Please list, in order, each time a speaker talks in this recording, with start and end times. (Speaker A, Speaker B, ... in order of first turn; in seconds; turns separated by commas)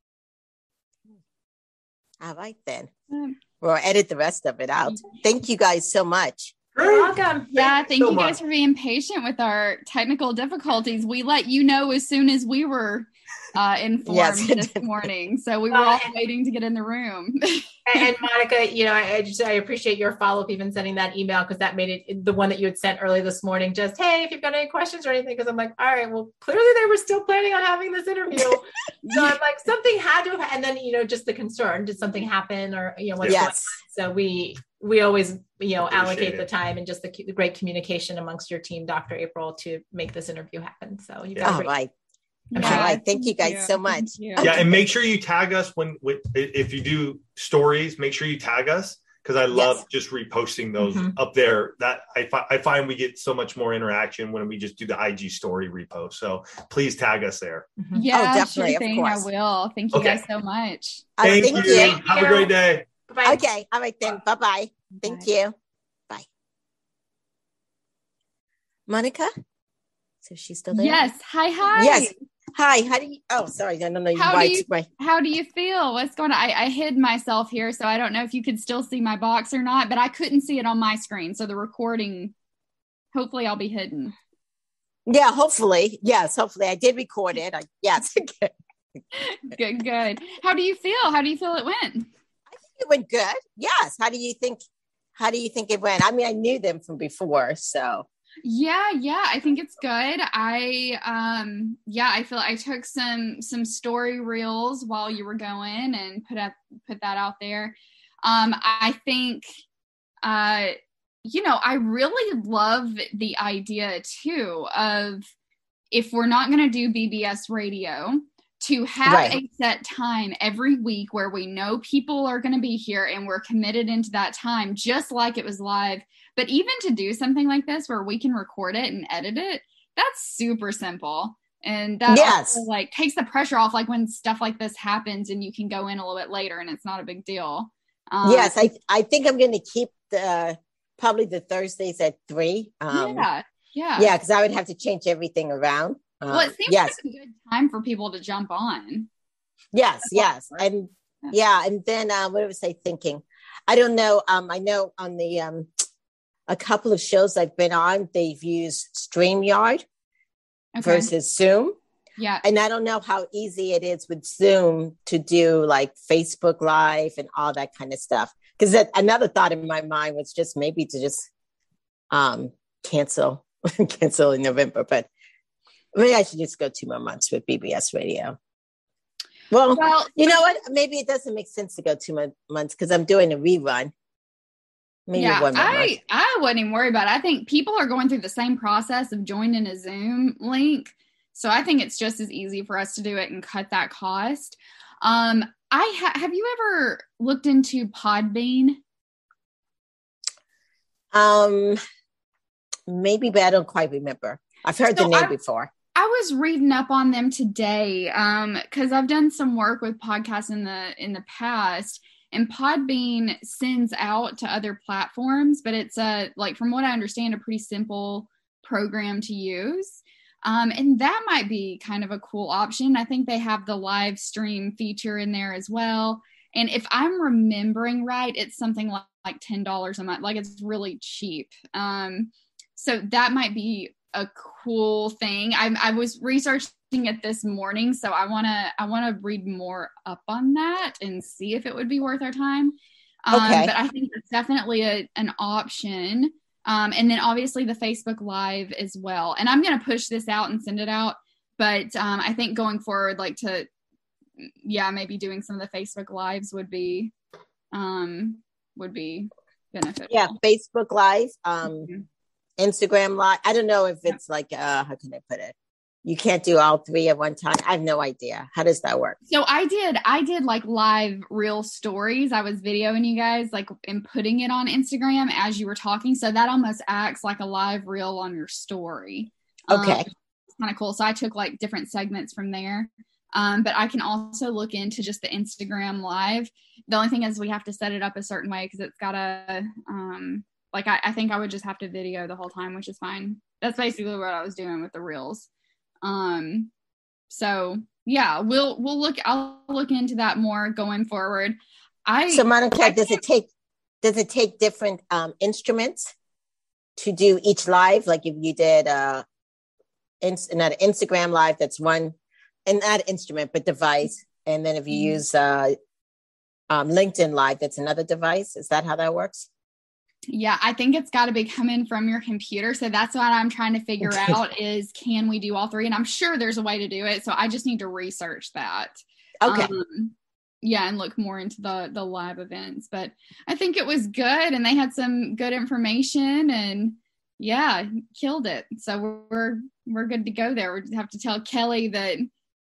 Speaker A: 2.2-2.9, Speaker A: 3.6-6.5, Speaker B: 6.8-8.4, Speaker C: 6.8-7.8, Speaker D: 7.5-17.8, Speaker A: 14.1-14.8, Speaker C: 15.7-16.1, Speaker C: 17.9-41.7, Speaker A: 33.3-33.7, Speaker B: 35.8-36.5, Speaker A: 41.4-41.9, Speaker D: 42.5-44.5, Speaker C: 42.5-42.9, Speaker A: 42.6-44.9, Speaker B: 44.4-57.7, Speaker A: 49.5-49.8, Speaker C: 50.8-51.1, Speaker C: 57.8-58.0, Speaker D: 57.9-61.1, Speaker A: 58.1-59.3, Speaker B: 59.9-60.2, Speaker A: 61.2-62.0, Speaker B: 61.2-62.8, Speaker C: 61.5-62.5, Speaker C: 63.1-63.4, Speaker A: 63.2-65.5, Speaker C: 65.0-65.2, Speaker A: 68.9-69.3, Speaker A: 70.2-71.0, Speaker D: 70.7-72.1, Speaker A: 71.7-74.9, Speaker D: 74.2-82.3, Speaker D: 83.1-84.1, Speaker A: 85.1-88.5, Speaker D: 89.1-92.1, Speaker A: 92.6-94.6, Speaker A: 95.2-98.0, Speaker D: 98.4-109.5, Speaker D: 110.2-115.3, Speaker D: 115.9-138.5, Speaker A: 119.0-119.4, Speaker A: 132.1-132.6, Speaker A: 138.2-143.3, Speaker D: 142.9-144.1, Speaker A: 144.0-146.9, Speaker D: 146.3-149.1, Speaker A: 149.7-155.7, Speaker A: 156.5-159.8, Speaker D: 160.7-161.1, Speaker A: 160.8-161.8, Speaker D: 162.2-162.4, Speaker A: 162.4-171.3, Speaker A: 172.1-175.1, Speaker A: 175.9-178.4, Speaker A: 179.5-183.9, Speaker D: 179.7-180.4, Speaker A: 185.1-185.9, Speaker D: 185.1-198.8, Speaker A: 201.1-201.8, Speaker A: 202.9-205.7, Speaker D: 204.9-205.3, Speaker D: 205.9-253.7, Speaker A: 243.3-243.7, Speaker D: 254.4-257.1, Speaker D: 257.7-260.3, Speaker A: 260.1-261.9, Speaker D: 261.7-262.0, Speaker A: 262.6-265.5, Speaker A: 266.0-269.2, Speaker D: 269.3-295.5, Speaker A: 279.7-280.1, Speaker D: 296.0-296.7, Speaker D: 297.3-303.2, Speaker A: 302.3-303.5, Speaker A: 304.0-306.1, Speaker A: 306.9-309.2, Speaker A: 310.2-312.1, Speaker A: 312.6-315.7, Speaker D: 314.9-315.2, Speaker A: 316.7-319.5, Speaker D: 320.3-342.3, Speaker A: 324.0-324.3, Speaker A: 329.4-329.7